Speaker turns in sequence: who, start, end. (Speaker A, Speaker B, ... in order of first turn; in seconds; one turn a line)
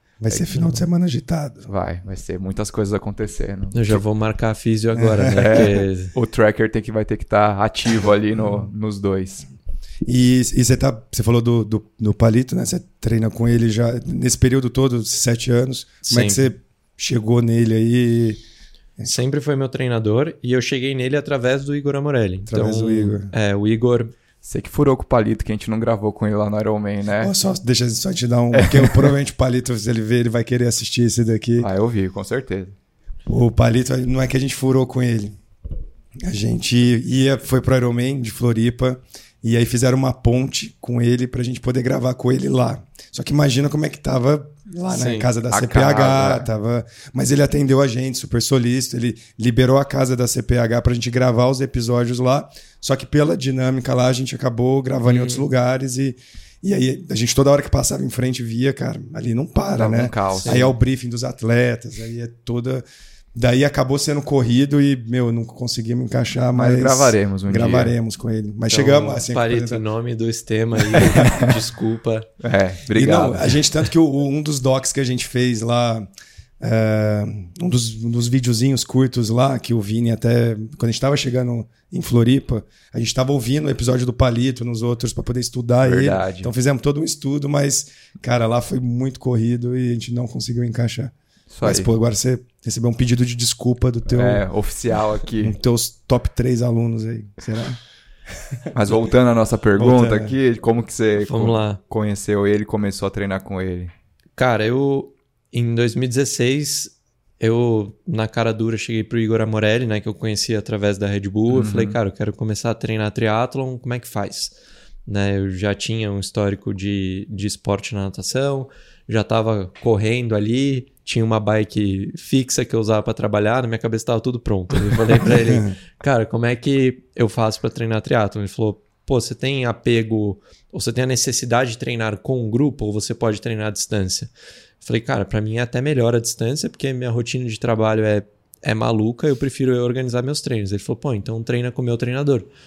Speaker A: 0.2-1.7
Speaker B: 0.5-0.8
Speaker C: 1.7-4.0
Speaker B: 3.7-6.1
Speaker A: 5.0-5.7
Speaker C: 5.3-9.5
Speaker A: 10.1-18.4
Speaker B: 16.1-16.5
Speaker B: 19.1-24.1
Speaker A: 22.5-23.3
Speaker C: 24.4-27.3
Speaker A: 27.2-31.7
Speaker C: 28.5-29.1
Speaker C: 31.6-32.8
Speaker A: 33.3-35.4
Speaker A: 36.2-62.8
Speaker B: 44.9-45.3
Speaker C: 45.5-46.5
Speaker B: 55.0-55.5
Speaker C: 59.7-60.7
Speaker B: 60.4-60.8
Speaker A: 63.4-69.8
Speaker C: 66.5-67.9
Speaker B: 68.7-72.3
Speaker A: 71.0-71.3
Speaker C: 72.4-73.7
Speaker A: 72.9-76.1
Speaker A: 76.6-94.5
Speaker C: 85.8-86.5
Speaker C: 91.5-91.9
Speaker C: 94.1-95.6
Speaker A: 95.4-97.8
Speaker C: 98.7-103.9
Speaker A: 99.8-100.4
Speaker B: 101.2-101.8
Speaker B: 104.4-114.5
Speaker C: 111.5-112.0
Speaker B: 115.1-142.5
Speaker A: 125.3-125.8